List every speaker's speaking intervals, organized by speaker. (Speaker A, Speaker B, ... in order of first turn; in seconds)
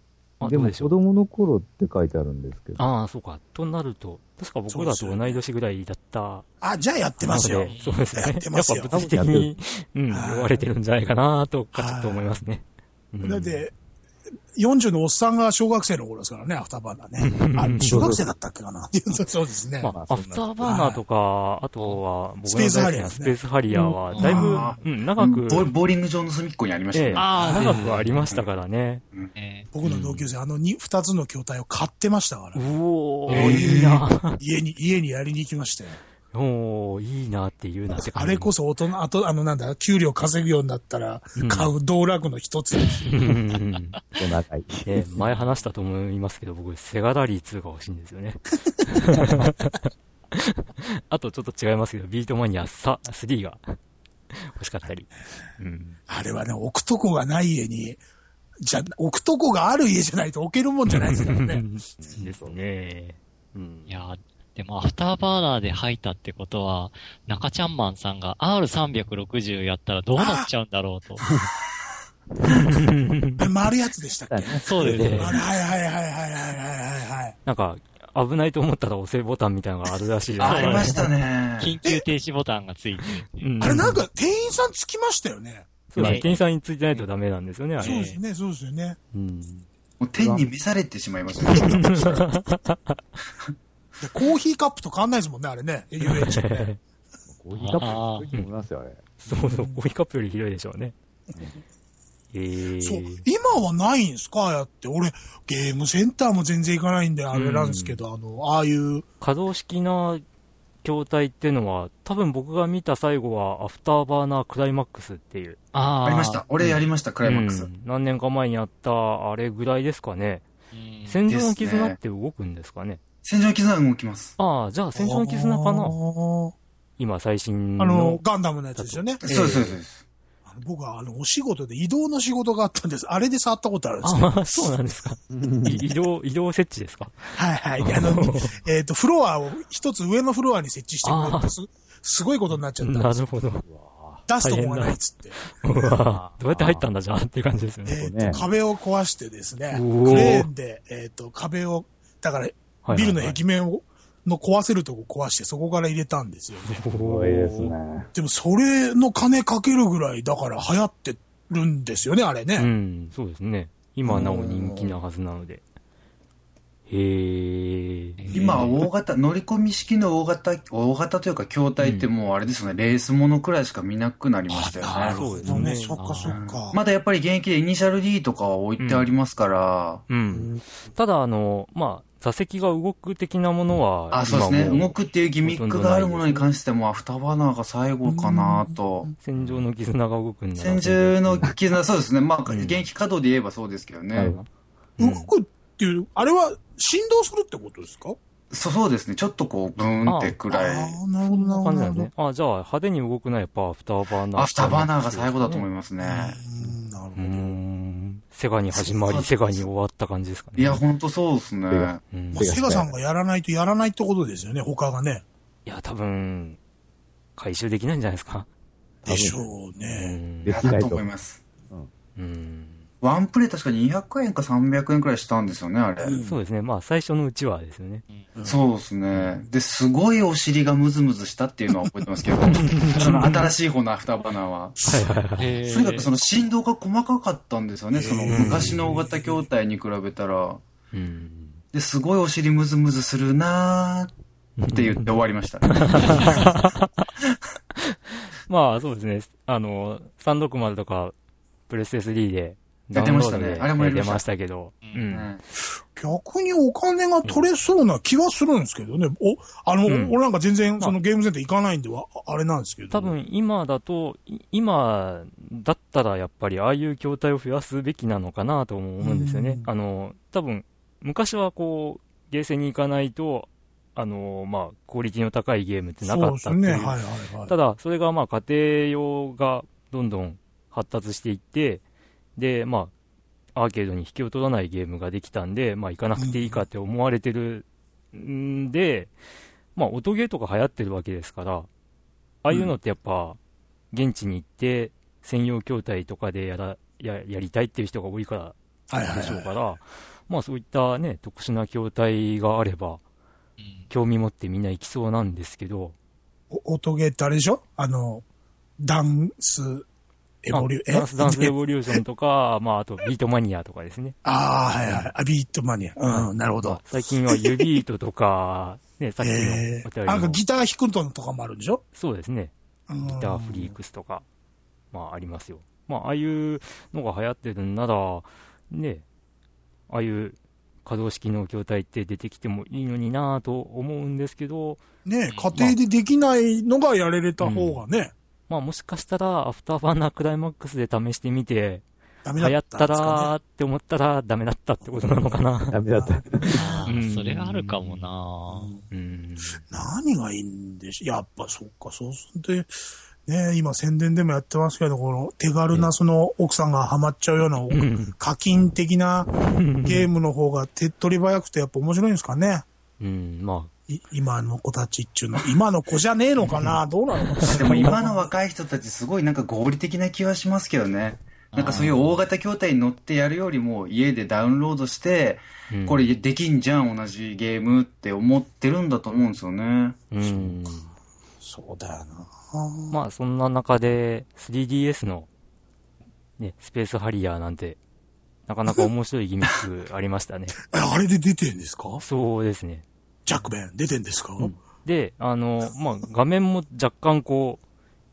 Speaker A: 0.4-0.9, 2.8-6.4, 7.2-13.6, 17.2-18.1, 19.8-25.7, 26.9-29.0, 29.8-30.2, 32.5-34.4, 36.3-38.5, 41.4-41.7, 43.0-44.0, 44.9-53.8, 54.3-56.0, 60.9-63.9, 72.4-73.4, 74.8-75.4, 77.5-81.0, 83.4-84.0, 85.9-88.0, 89.1-89.6, 91.5-93.0, 96.0-96.8, 99.2-100.9, 102.3-103.2, 107.3-108.0, 109.2-110.2, 110.8-115.6, 117.2-120.4, 121.0-123.0, 124.4-126.0, 127.0-128.2, 128.8-129.8, 134.0-138.6, 141.0-141.5, 142.8-143.6, 144.4-148.4, 149.7-150.5, 152.8-153.4, 156.6-157.7, 162.6-165.6, 166.9-168.6, 171.8-172.1, 175.1-175.9, 178.8-179.1, 180.1-186.5, 189.2-191.5, 192.5-192.9, 194.2-194.5, 195.0-195.3, 200.1-200.4, 201.2-205.7, 207.2-210.8, 212.1-212.5, 215.7-216.6, 217.4-218.5, 219.9-220.8, 222.2-222.8, 226.2-228.0, 232.5-233.5, 234.8-235.5, 238.3-238.8, 240.9-241.6, 244.6-247.1, 247.8-251.1, 251.7-255.4, 259.9-260.2, 262.9-281.8, 282.4-282.9, 283.5-289.1, 289.7-291.7, 292.4-293.4, 293.9-298.6, 299.1-303.0, 303.9-305.9, 310.5-314.1, 314.8-315.1, 316.1-320.4, 321.9-322.5, 323.0-324.2, 324.9-329.0, 329.9-334.9, 337.4-337.8, 338.5-341.8, 342.4-345.8, 346.4-348.1, 348.9-349.6, 357.7-358.1, 359.4-360.1, 363.0-363.7, 366.4-366.8, 367.3-368.0, 375.7-376.0, 380.1-380.9, 382.9-385.3, 386.4-387.8, 388.5-390.6, 392.0-392.8, 394.4-397.6
Speaker B: 0.4-2.8, 8.9-9.5, 17.8-18.2, 19.9-20.6, 44.2-45.1, 62.0-62.5, 74.3-75.3, 86.0-86.2, 90.2-90.4, 97.3-99.1, 135.3-135.8, 143.6-144.2, 146.1-146.8, 148.0-148.4, 156.9-158.1, 211.7-212.9, 219.0-219.4, 220.4-221.1, 345.7-346.5
Speaker C: 4.7-5.4, 6.6-9.1, 10.1-10.6, 11.7-12.4, 13.2-13.7, 14.6-19.9, 20.6-21.0, 22.4-23.4, 24.2-24.7, 27.4-27.8, 29.7-32.6, 33.3-36.0, 37.9-43.1, 56.1-58.0, 58.6-61.6, 70.2-70.5, 73.4-77.3, 83.6-86.2, 87.8-89.0, 94.0-96.7, 99.3-99.8, 102.8-109.0, 124.9-126.5, 127.8-129.6, 130.4-134.8, 137.3-143.3, 144.3-146.0, 147.8-156.8, 158.1-162.7, 164.1-164.9, 168.3-168.6, 174.5-176.8, 180.3-180.6, 188.1-189.1, 195.0-198.2, 200.5-202.1, 206.0-207.5, 212.3-215.2, 219.0-220.2, 226.0-226.4, 228.3-228.6, 234.8-235.1, 237.9-239.4, 255.9-263.2, 269.0-269.7, 276.0-277.5, 286.1-286.6, 298.9-299.5, 306.5-308.2, 308.8-309.9, 310.4-312.0, 314.2-317.7, 319.2-321.8, 322.9-323.7, 335.0-338.1, 342.2-343.3, 345.9-346.9, 348.5-348.9, 349.6-362.6, 363.9-368.3, 380.2-380.7, 381.4-383.0, 390.6-392.0, 393.2-394.6
Speaker D: 7.6-8.0, 24.1-24.6, 27.1-28.2, 29.3-29.7, 33.3-33.6, 63.9-71.2, 74.6-75.4, 80.4-81.0, 81.6-83.5, 86.0-86.4, 87.8-88.2, 97.5-98.3, 115.7-116.8, 120.7-121.2, 168.2-168.8, 175.9-176.4, 235.4-236.1, 303.6-303.9, 335.3-335.6, 346.5-348.7, 371.5-372.0
Speaker E: 24.2-27.3, 33.3-34.0, 80.4-81.7, 90.0-92.2, 116.0-117.7, 121.3-122.0, 123.2-124.3, 129.2-130.0, 168.3-175.2, 176.3-180.0, 184.1-189.1, 190.6-194.3, 198.5-201.0, 204.3-206.4, 208.7-209.6, 210.6-212.0, 220.5-221.4, 223.0-226.2, 228.4-234.8, 235.6-240.6, 241.7-244.1, 244.7-246.5, 252.9-254.2, 255.1-255.4, 367.4-380.0